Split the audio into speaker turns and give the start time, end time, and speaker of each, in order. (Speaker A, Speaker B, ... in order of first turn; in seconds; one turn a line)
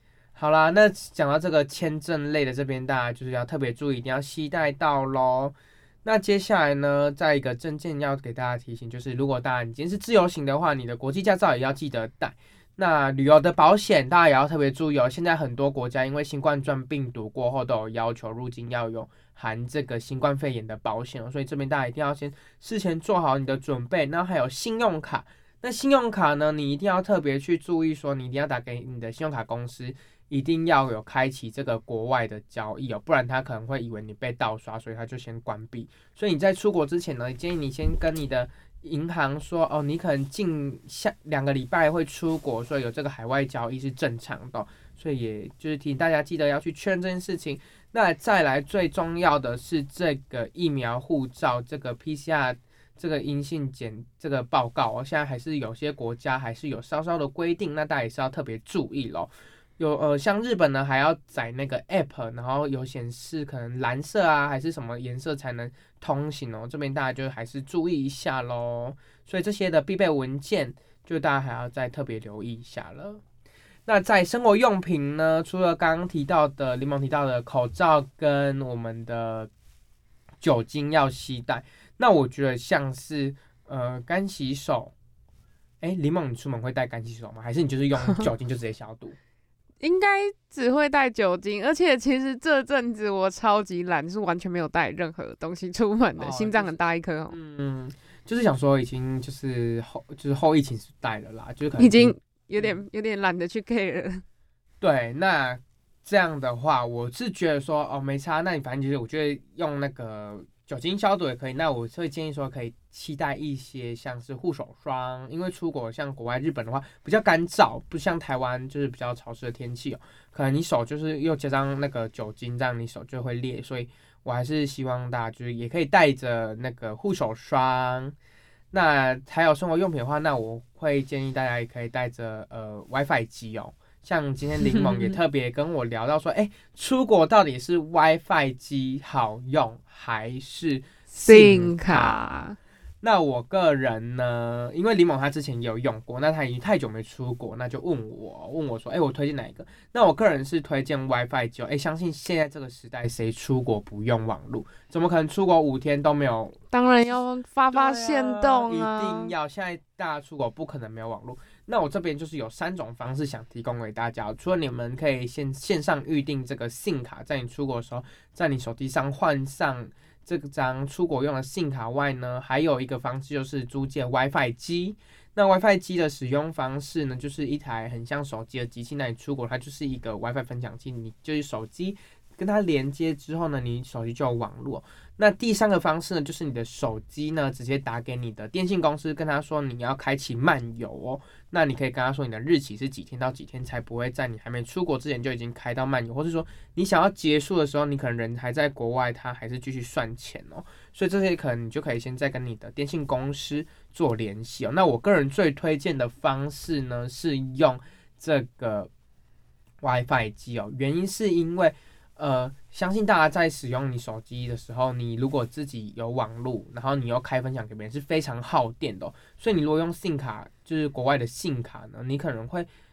Speaker A: 0.3-73.2
Speaker A: 73.8-79.5
Speaker A: 80.4-84.9
Speaker A: 85.8-89.2
Speaker B: 89.8-97.3
Speaker A: 96.2-102.8
Speaker B: 101.8-104.2
Speaker A: 104.8-128.1
Speaker A: 128.7-142.2
Speaker B: 134.6-135.1
Speaker B: 141.1-142.6
Speaker A: 143.0-156.6
Speaker B: 156.7-159.3
Speaker A: 157.7-208.9
Speaker A: 209.8-222.7